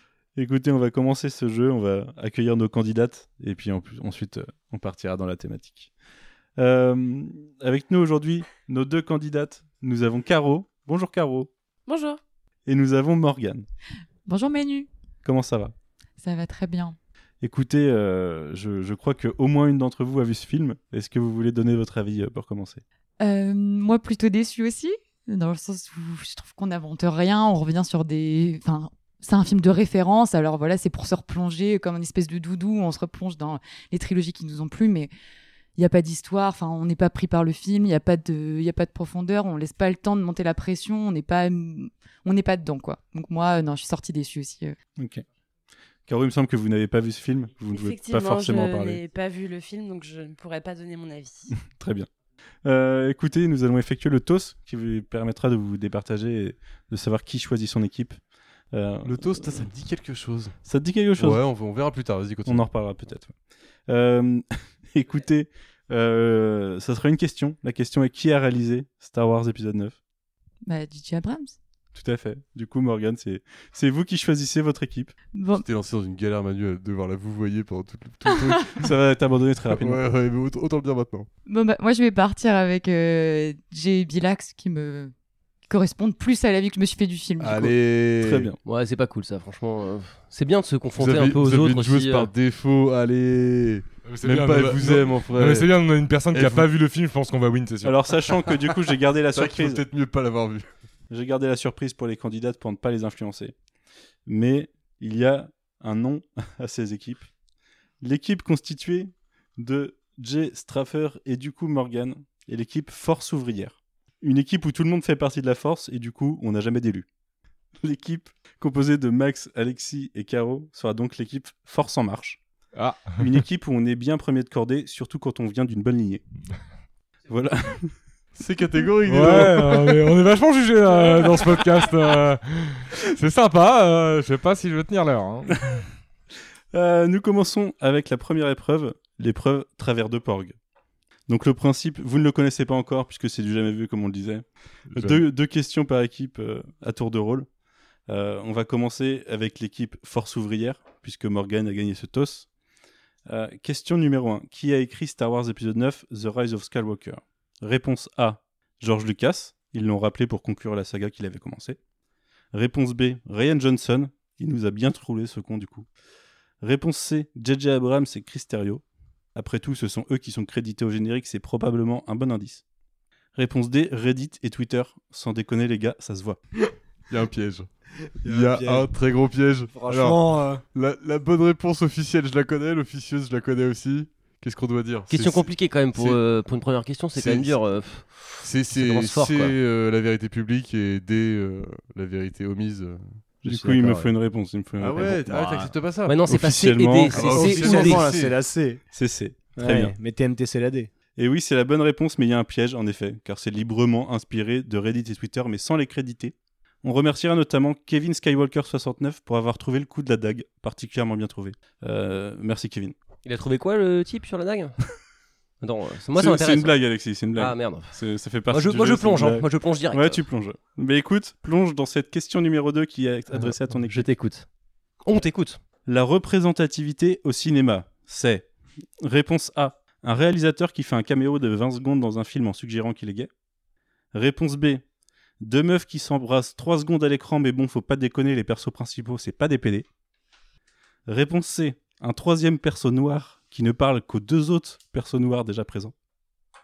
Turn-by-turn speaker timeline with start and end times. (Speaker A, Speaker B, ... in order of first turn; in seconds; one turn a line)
Speaker A: 0.3-5.9
Speaker A: 6.6-11.5
Speaker B: 11.8-12.2
Speaker A: 12.7-13.7
Speaker C: 14.2-14.9
Speaker A: 15.2-15.7
Speaker C: 16.2-16.9
Speaker A: 17.4-22.8
Speaker C: 23.2-35.1
Speaker C: 35.8-44.7
Speaker A: 45.0-45.2
Speaker A: 46.1-49.0
Speaker B: 47.7-51.5
Speaker A: 51.7-52.1
Speaker A: 52.6-58.2
Speaker A: 58.7-59.7
Speaker D: 59.0-60.5
Speaker A: 60.6-61.4
Speaker D: 61.2-62.6
Speaker A: 62.5-63.3
Speaker A: 63.9-70.0
Speaker C: 70.6-71.5
Speaker A: 71.9-75.1
Speaker C: 75.3-75.6
Speaker D: 75.5-78.9
Speaker C: 78.3-78.6
Speaker A: 78.8-80.0
Speaker D: 79.7-81.3
Speaker C: 81.5-85.1
Speaker C: 85.7-87.7
Speaker D: 87.4-88.5
Speaker A: 88.2-88.6
Speaker E: 88.6-92.3
Speaker D: 91.0-95.7
Speaker F: 94.0-98.0
Speaker D: 96.3-96.7
Speaker A: 97.8-99.8
Speaker D: 99.3-100.7
Speaker A: 101.1-103.5
Speaker A: 104.2-107.3
Speaker A: 108.0-117.0
Speaker A: 117.8-122.4
Speaker F: 122.7-123.2
Speaker A: 123.2-126.2
Speaker A: 127.3-127.9
Speaker D: 128.3-130.1
Speaker F: 129.1-135.8
Speaker A: 136.7-140.5
Speaker A: 141.3-147.5
Speaker A: 148.1-152.5
Speaker A: 153.3-161.8
Speaker A: 162.5-165.8
Speaker A: 166.6-168.8
Speaker A: 169.3-172.6
Speaker A: 173.3-176.4
Speaker D: 177.1-177.7
Speaker G: 178.2-178.9
Speaker D: 178.2-180.2
Speaker G: 179.7-180.6
Speaker D: 180.7-186.2
Speaker E: 185.1-189.5
Speaker D: 187.1-187.6
Speaker D: 188.4-193.2
Speaker A: 193.4-195.2
Speaker G: 193.5-193.9
Speaker D: 194.8-196.2
Speaker G: 195.0-195.7
Speaker E: 196.1-198.0
Speaker A: 196.3-197.6
Speaker D: 197.1-198.3
Speaker G: 197.1-198.8
Speaker A: 198.9-200.0
Speaker G: 199.6-200.9
Speaker A: 201.2-212.9
Speaker E: 213.2-214.8
Speaker E: 215.6-216.8
Speaker A: 216.1-224.1
Speaker E: 217.3-217.9
Speaker E: 218.5-220.2
Speaker E: 223.9-224.4
Speaker E: 225.0-225.6
Speaker A: 225.8-228.5
Speaker A: 229.0-233.3
Speaker A: 234.1-234.8
Speaker A: 235.4-239.8
Speaker A: 241.1-245.9